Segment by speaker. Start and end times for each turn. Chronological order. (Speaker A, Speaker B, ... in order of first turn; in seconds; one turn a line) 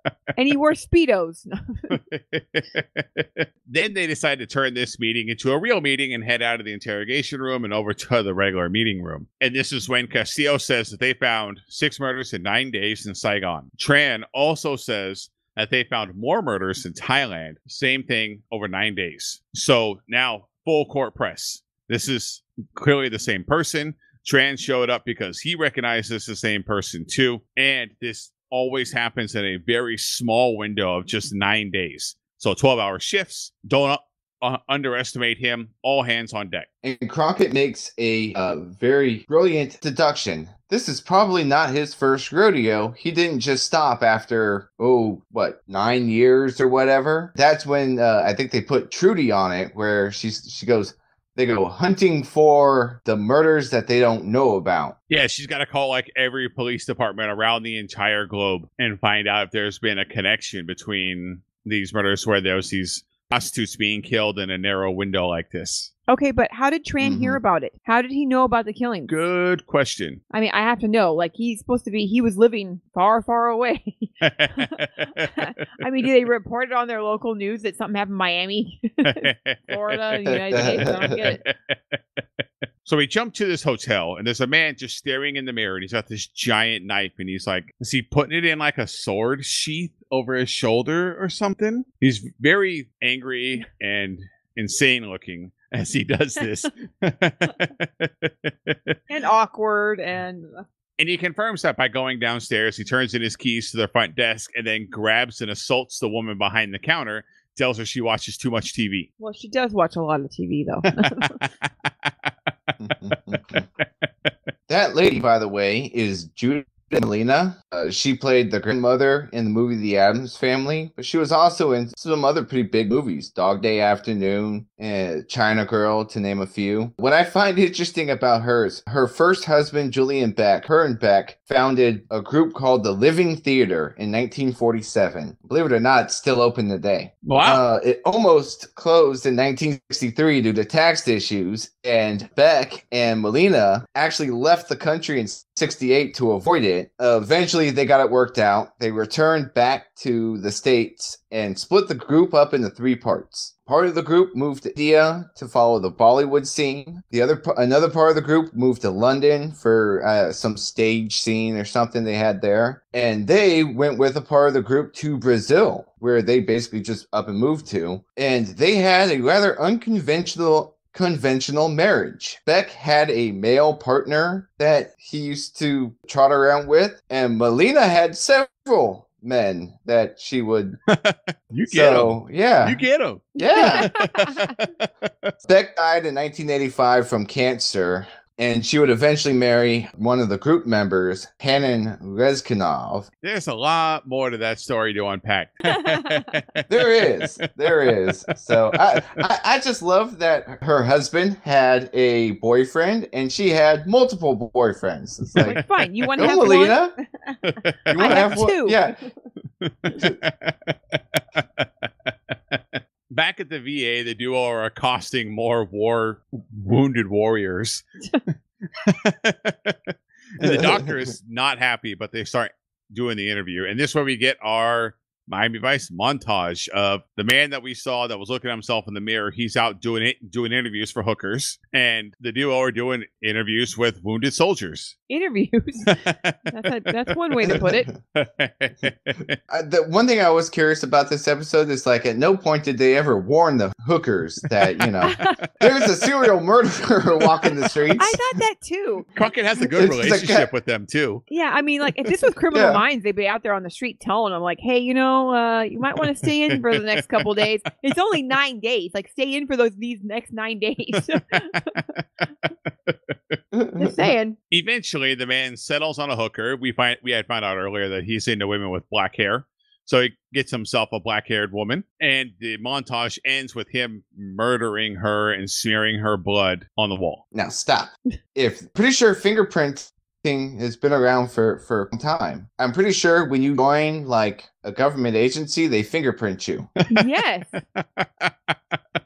Speaker A: 0.3-1.9
Speaker B: 1.9-36.7
Speaker C: 36.8-55.0
Speaker B: 55.1-65.9
Speaker A: 66.1-69.1
Speaker C: 67.0-67.4
Speaker B: 69.1-70.2
Speaker A: 70.3-81.4
Speaker B: 74.2-75.5
Speaker B: 79.0-82.2
Speaker C: 80.2-81.1
Speaker B: 82.8-99.0
Speaker A: 99.1-100.6
Speaker B: 101.0-109.1
Speaker A: 109.2-111.4
Speaker B: 111.0-112.3
Speaker C: 112.8-113.6
Speaker B: 113.1-114.3
Speaker C: 114.7-180.8
Speaker B: 137.2-137.6
Speaker B: 180.9-185.3
Speaker C: 181.7-182.8
Speaker A: 183.3-184.5
Speaker C: 183.3-183.9
Speaker C: 185.4-193.1
Speaker B: 193.2-199.1
Speaker A: 195.7-196.2
Speaker C: 196.7-205.6
Speaker B: 205.3-206.1
Speaker A: 205.4-207.3
Speaker C: 206.2-206.9
Speaker B: 207.4-208.3
Speaker C: 207.9-209.0
Speaker A: 207.9-208.8
Speaker B: 209.6-217.8
Speaker B: 218.8-234.9
Speaker C: 220.4-221.1
Speaker A: 235.1-237.9
Speaker B: 235.9-236.7
Speaker B: 238.1-239.3
Speaker C: 239.5-248.2
Speaker B: 244.8-245.2
Speaker A: 245.0-245.4
Speaker A: 248.0-249.1
Speaker B: 249.1-251.2
Speaker C: 249.6-250.5
Speaker A: 251.3-261.8
Speaker C: 252.5-252.8
Speaker B: 256.0-257.3
Speaker B: 261.2-262.0
Speaker B: 262.7-263.4
Speaker C: 263.5-263.9
Speaker A: 263.8-264.4
Speaker B: 264.5-277.2
Speaker C: 277.3-286.7
Speaker B: 286.8-287.1
Speaker A: 286.9-287.6
Speaker B: 287.7-288.8